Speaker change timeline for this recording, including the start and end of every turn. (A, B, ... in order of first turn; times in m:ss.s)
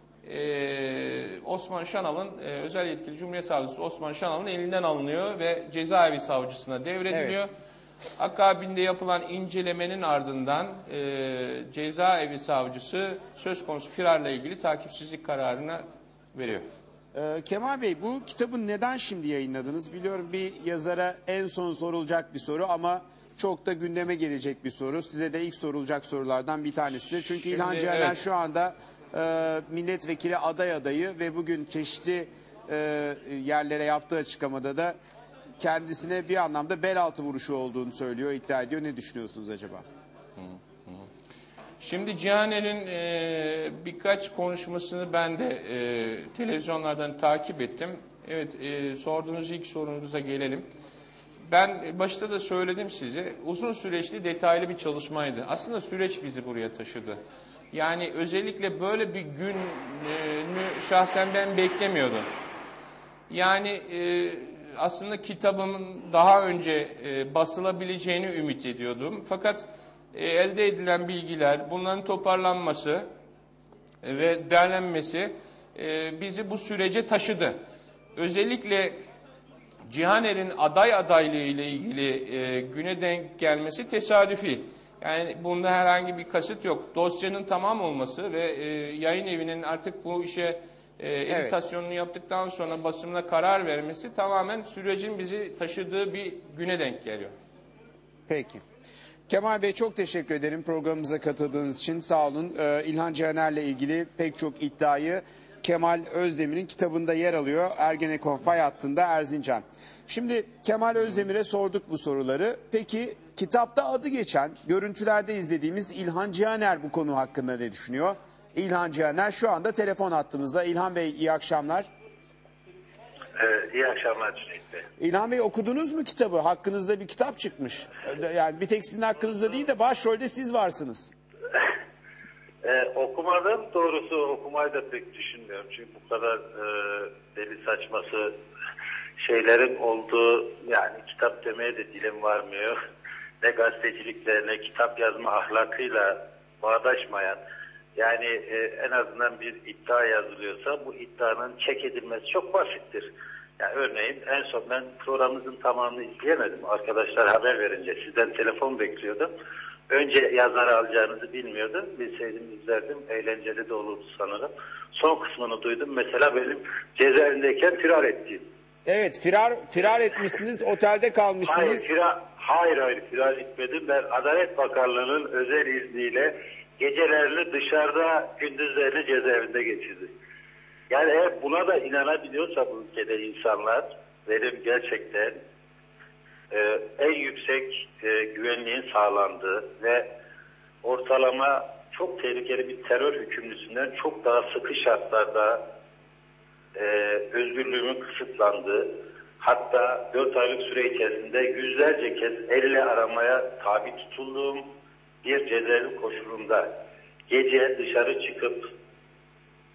0:00.2-0:07.5 A
0:07.1-0:07.4 B
0:08.2-0:16.7 A
0:17.1-0:35.0 B
0:27.5-0:28.2 A
0:35.6-0:39.8 B
0:40.4-0:41.0 A
0:41.8-0:50.7 A
0:51.5-0:57.2 A
0:57.7-1:02.3 A
1:03.3-1:13.1 A
1:14.0-1:17.6 A
1:18.1-1:19.0 A
1:19.9-1:37.3 A
1:31.3-1:31.6 B
1:38.3-1:38.6 B
1:39.3-2:01.9 B
2:03.4-2:04.9 C
2:05.0-2:11.1 B
2:12.6-2:18.3 C
2:19.2-2:22.8 C
2:23.4-2:27.4 C
2:28.0-2:39.3 C
2:39.9-2:48.4 C
2:48.9-2:51.9 B
2:51.4-3:00.1 C
3:00.9-3:05.4 C
3:06.5-3:10.1 C
3:10.8-3:15.6 C
3:16.8-3:18.9 C
3:19.4-3:24.6 C
3:25.2-3:26.7 C
3:27.3-3:28.6 C